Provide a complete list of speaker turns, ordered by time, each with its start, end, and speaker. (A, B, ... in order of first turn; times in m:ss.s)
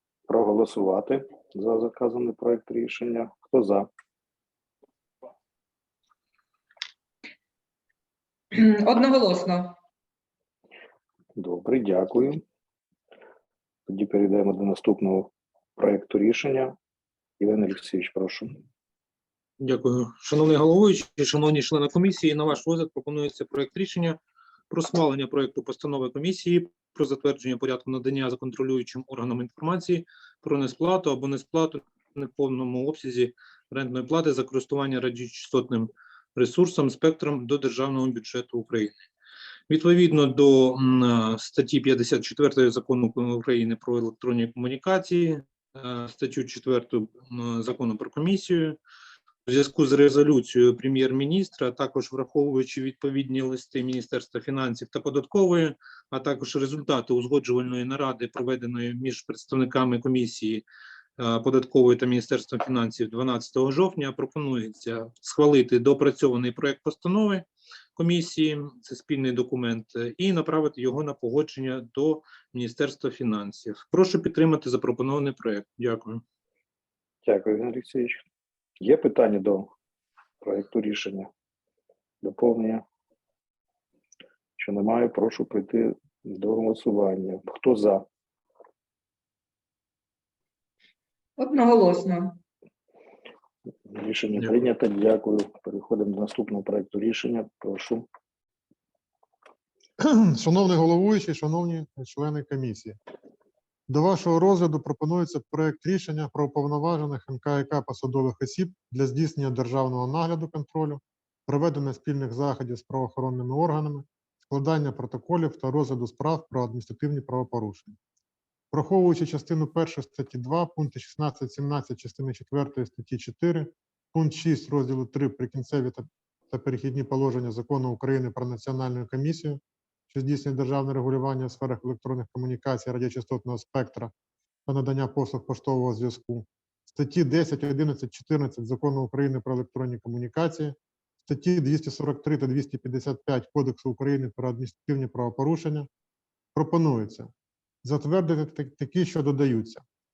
0:00.3-0:03.9 A
0:08.5-0:09.7 B
0:11.4-0:12.4 A
0:13.9-0:16.7 A
0:17.4-0:18.5 A
0:19.6-0:24.2 C
0:24.7-0:38.9 C
0:39.7-0:48.8 C
0:49.4-1:00.6 C
1:01.2-1:16.2 C
1:17.2-1:18.2 A
1:18.8-1:19.7 A
1:20.4-1:21.3 A
1:22.2-1:22.8 A
1:24.6-1:28.0 A
1:31.4-1:32.4 B
1:33.9-1:38.0 A
1:40.0-1:43.0 D
1:43.9-1:58.0 D
1:58.7-2:14.1 D
2:14.6-2:20.7 D
2:21.2-2:25.9 D
2:26.5-2:27.3 D
2:27.8-2:29.8 D